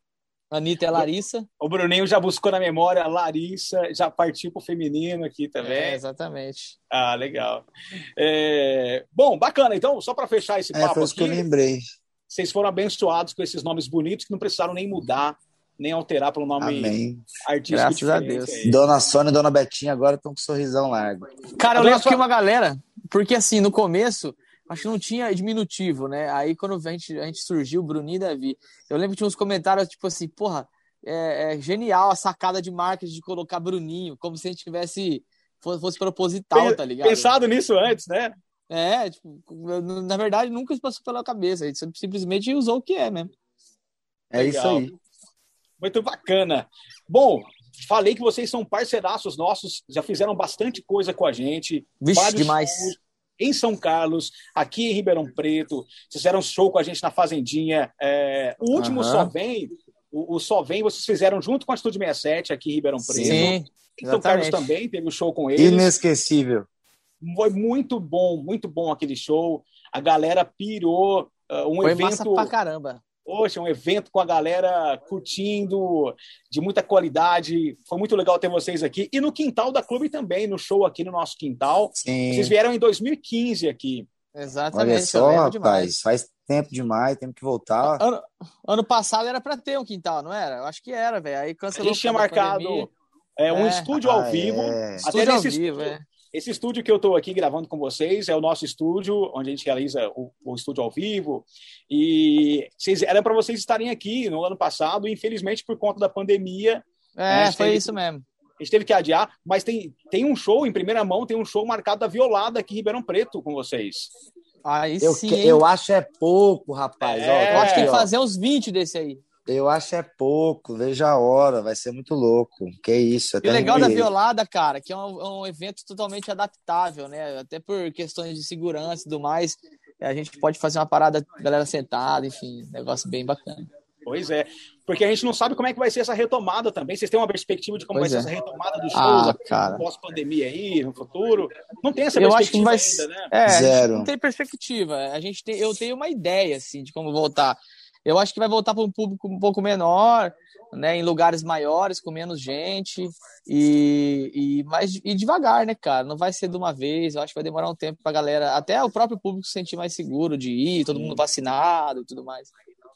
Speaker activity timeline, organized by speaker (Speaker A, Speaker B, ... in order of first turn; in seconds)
Speaker A: 0.5-1.5, 5.6-6.8, 17.7-18.6, 21.6-37.3, 38.7-43.3, 52.0-52.9, 58.8-59.3, 63.2-64.7, 71.8-73.0, 84.3-85.9, 87.8-92.9, 93.5-93.9, 95.0-96.0, 107.2-108.2, 114.6-115.6, 117.5-119.2, 123.4-133.7, 137.9-138.3, 138.9-139.8, 142.2-162.5
Speaker B: 1.6-6.0, 6.9-7.6, 8.2-11.4, 12.3-16.9, 17.4-18.8, 21.7-22.2, 36.5-38.3, 44.3-44.9, 45.8-65.9, 67.2-72.5, 73.3-84.1, 91.8-107.8, 108.6-114.1, 117.0-117.9, 134.0-143.3, 160.9-161.2
Speaker C: 10.7-11.8, 16.6-17.2, 18.6-21.2, 44.3-44.9, 63.0-63.5, 65.6-66.7, 82.0-82.5, 84.7-88.0, 93.9-95.1, 115.0-118.1, 119.5-124.1, 143.4-144.1